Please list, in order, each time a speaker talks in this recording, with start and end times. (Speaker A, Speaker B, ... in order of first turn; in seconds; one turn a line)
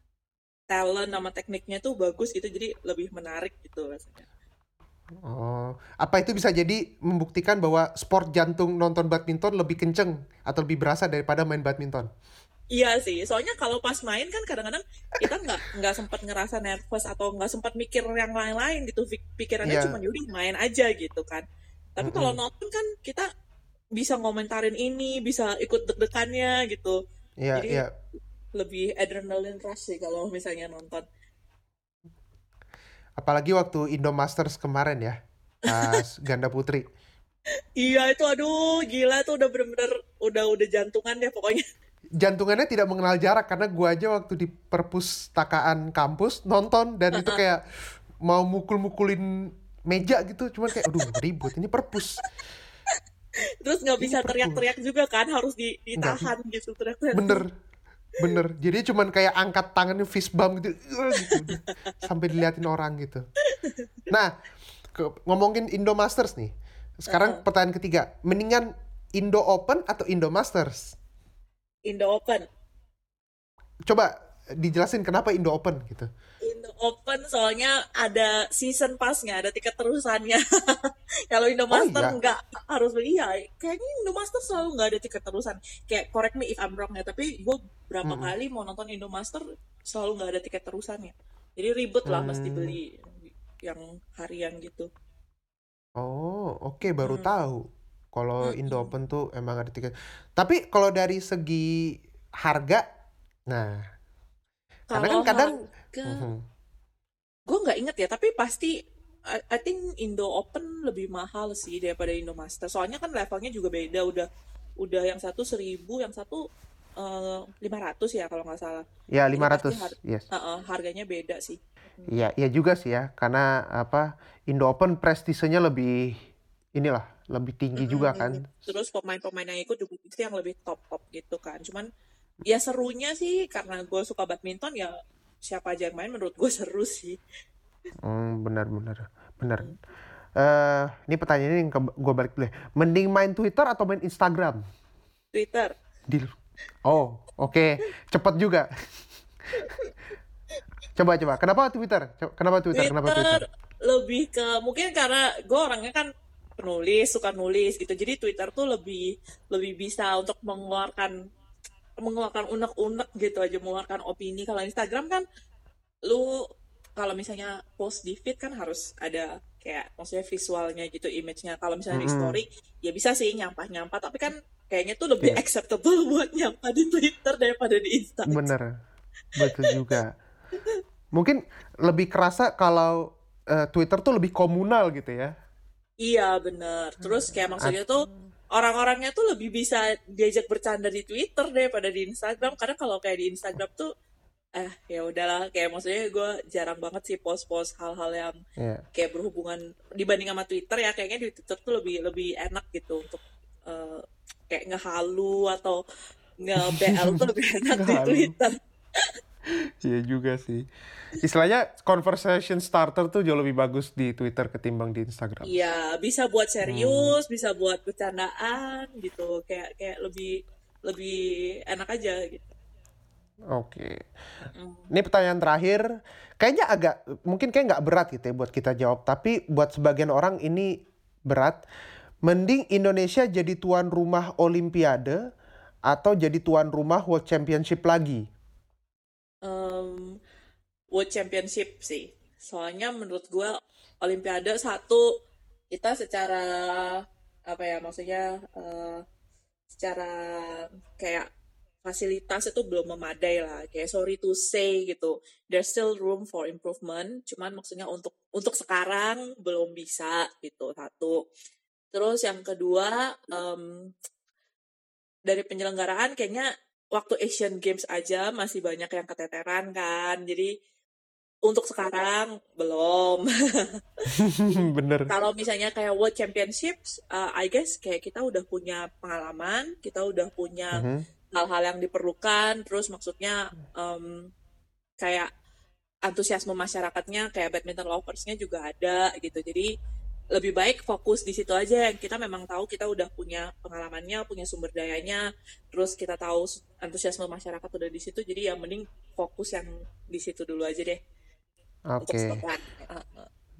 Speaker A: 0.7-4.3
Speaker B: 5.2-12.1
Speaker A: 12.7-21.4
Speaker B: 19.6-20.0
Speaker A: 22.0-23.3
Speaker B: 22.0-22.4
Speaker A: 24.0-27.0
Speaker B: 27.4-27.9
Speaker A: 27.6-27.8
Speaker A: 28.6-31.1
Speaker B: 33.2-36.9
Speaker A: 37.8-41.6
Speaker B: 42.2-47.6
Speaker A: 47.1-47.4
Speaker B: 48.3-52.2
Speaker A: 53.6-57.4
Speaker B: 54.0-54.6
Speaker B: 56.0-56.3
Speaker B: 57.1-57.5
Speaker B: 58.2-63.3
Speaker A: 61.2-61.7
Speaker A: 63.5-63.9
Speaker B: 65.0-71.0
Speaker A: 67.1-67.4
Speaker A: 71.9-72.5
Speaker B: 73.9-76.1
Speaker A: 76.4-92.9
Speaker B: 81.7-82.1
Speaker B: 88.1-88.3
Speaker B: 92.1-92.8
Speaker A: 93.6-94.9
Speaker B: 96.0-101.8
Speaker A: 97.0-97.3
Speaker A: 98.4-98.9
Speaker B: 102.4-102.8
Speaker B: 103.5-103.8
Speaker A: 104.9-106.2
Speaker B: 105.0-105.6
Speaker B: 106.1-106.4
Speaker A: 107.5-108.7
Speaker A: 109.3-114.3
Speaker A: 114.8-116.4
Speaker A: 117.0-118.8
Speaker B: 119.1-120.3
Speaker A: 119.3-122.1
Speaker B: 122.1-126.2
Speaker B: 126.8-128.5
Speaker A: 127.8-131.9
Speaker A: 132.4-137.2
Speaker B: 138.0-139.7
Speaker B: 140.4-144.6
Speaker A: 145.3-145.8
Speaker B: 146.1-146.3
Speaker B: 146.8-148.7
Speaker A: 149.6-149.9
Speaker B: 151.0-153.4
Speaker A: 152.7-161.1
Speaker A: 162.0-165.2
Speaker A: 166.1-166.4
Speaker A: 167.0-178.5
Speaker B: 171.9-172.4
Speaker B: 178.3-178.7
Speaker B: 179.4-180.1
Speaker A: 179.4-179.7
Speaker B: 181.2-185.3
Speaker A: 186.0-193.9
Speaker B: 187.0-188.1
Speaker A: 194.6-198.3
Speaker B: 198.6-198.8
Speaker A: 198.9-205.8
Speaker A: 206.4-209.1
Speaker B: 206.9-207.2
Speaker B: 207.8-208.3
Speaker B: 209.8-210.6
Speaker B: 211.2-215.6
Speaker A: 215.4-222.4
Speaker B: 216.7-217.1
Speaker B: 223.5-224.0
Speaker A: 224.5-224.9
Speaker B: 224.9-225.8
Speaker B: 226.4-230.7
Speaker B: 231.3-231.6
Speaker B: 232.3-235.2
Speaker B: 235.9-238.2
Speaker A: 239.4-240.1
Speaker A: 240.9-245.1
Speaker A: 245.7-249.0
Speaker A: 249.8-251.3
Speaker A: 251.8-261.2
Speaker A: 261.9-263.9
Speaker A: 265.3-270.5
Speaker A: 271.5-280.8
Speaker B: 274.2-275.1
Speaker B: 280.8-281.0
Speaker A: 281.3-284.2
Speaker A: 285.0-285.3
Speaker A: 286.1-289.7
Speaker A: 290.4-301.0
Speaker B: 301.9-302.4
Speaker A: 302.0-303.3